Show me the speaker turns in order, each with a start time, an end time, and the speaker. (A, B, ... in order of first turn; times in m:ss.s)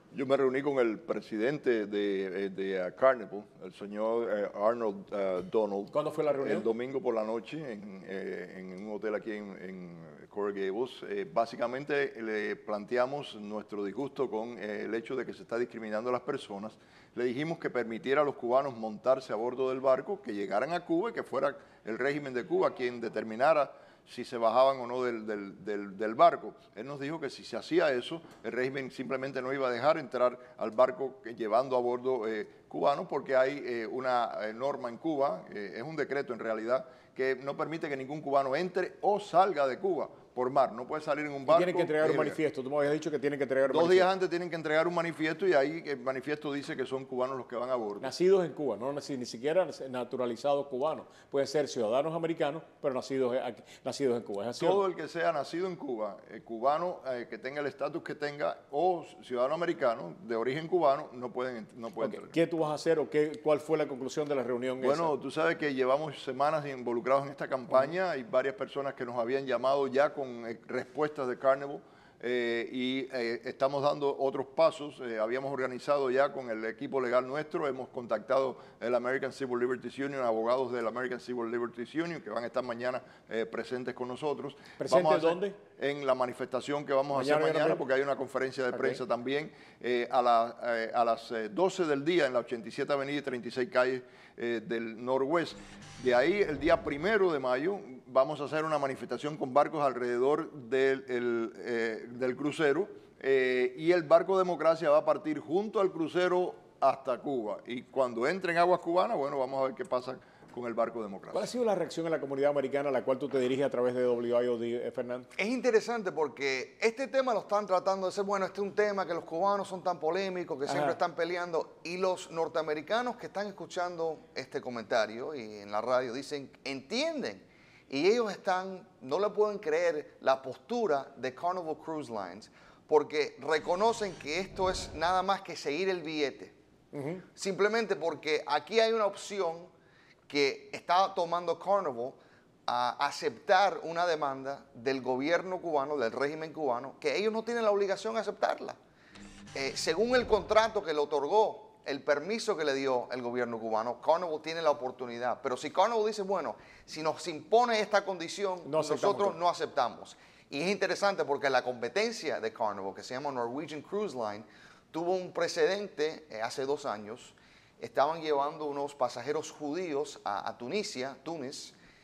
0:00.1-0:42.4 A
0:05.9-0:06.7 B
0:41.5-0:44.1 B
0:43.6-0:48.1 A
0:48.0-0:54.8 B
0:54.6-1:02.4 A
1:02.0-1:05.1 B
1:04.8-1:51.5 A
1:24.8-1:25.6 B
1:27.1-1:27.8 B
1:28.7-1:29.0 B
1:51.3-1:55.3 B
1:55.4-2:16.6 C
2:00.7-2:01.0 B
2:16.9-2:17.2 B
2:17.4-2:19.7 C
2:20.3-2:28.8 C
2:29.6-2:51.8 C
2:38.6-2:39.4 B